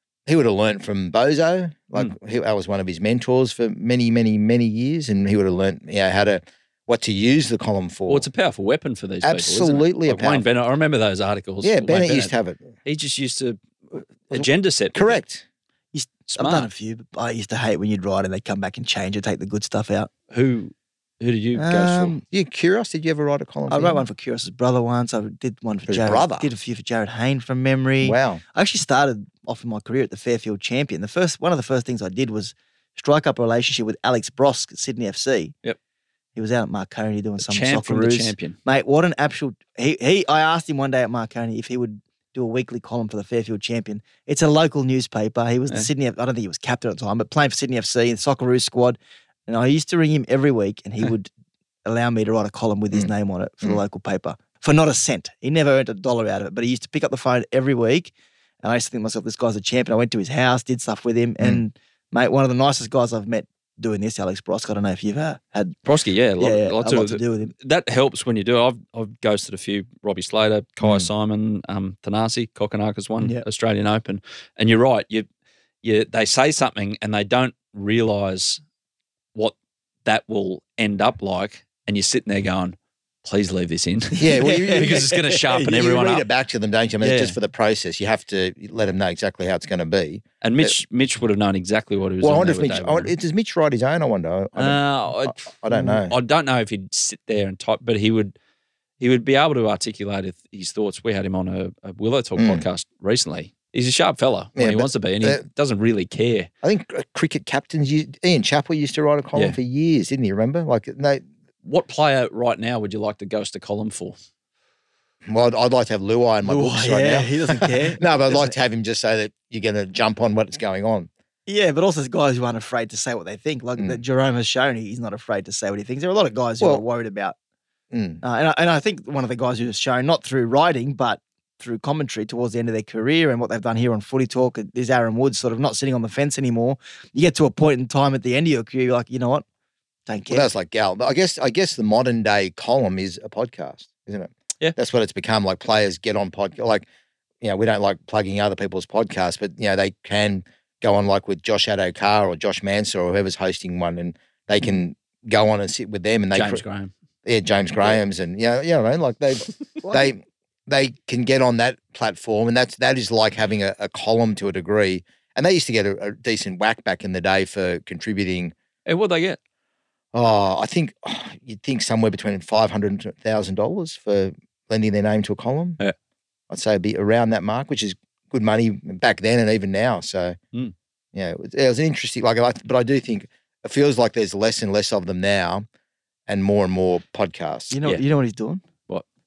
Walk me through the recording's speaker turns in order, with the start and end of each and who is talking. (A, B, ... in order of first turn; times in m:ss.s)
0:00.3-0:08.3 A
0:08.1-0:12.3 B
0:09.2-0:10.5 A
0:11.6-0:12.7 A
0:12.8-0:15.2 B
0:14.3-0:15.4 A
0:15.9-0:20.1 C
0:16.4-0:16.7 B
0:20.3-0:22.1 B
0:21.6-0:22.2 C
0:21.8-0:24.0 A
0:23.7-0:35.5 C
0:25.9-0:26.5 A
0:28.0-0:28.4 A
0:36.4-0:51.3 C
0:37.4-0:38.6 B
0:51.8-1:05.8 C
1:05.8-1:15.3 B
1:06.4-1:07.5 C
1:10.8-1:11.1 A
1:15.8-1:18.6 B
1:19.4-1:26.3 B
1:24.2-1:30.7 A
1:24.3-1:25.6 C
1:27.0-1:27.4 B
1:30.4-1:33.1 B
1:32.2-1:36.1 A
1:34.6-1:38.4 B
1:39.0-1:46.5 B
1:42.4-1:42.6 A
1:44.6-1:45.4 A
1:46.6-1:51.2 A
1:51.6-1:54.2 B
1:55.3-2:01.1 A
1:56.4-1:58.5 C
2:01.5-2:07.4 C
2:07.9-2:08.2 A
2:08.2-2:19.4 C
2:20.1-2:20.5 C
2:20.3-2:26.8 A
2:27.4-2:36.6 A
2:36.3-2:36.9 B
2:37.2-2:48.5 A
2:39.8-2:40.1 C
2:48.9-2:49.4 B
2:50.1-2:55.8 A
2:56.5-3:00.4 A
3:01.1-3:05.7 A
3:06.3-3:07.8 A
3:07.7-3:08.6 C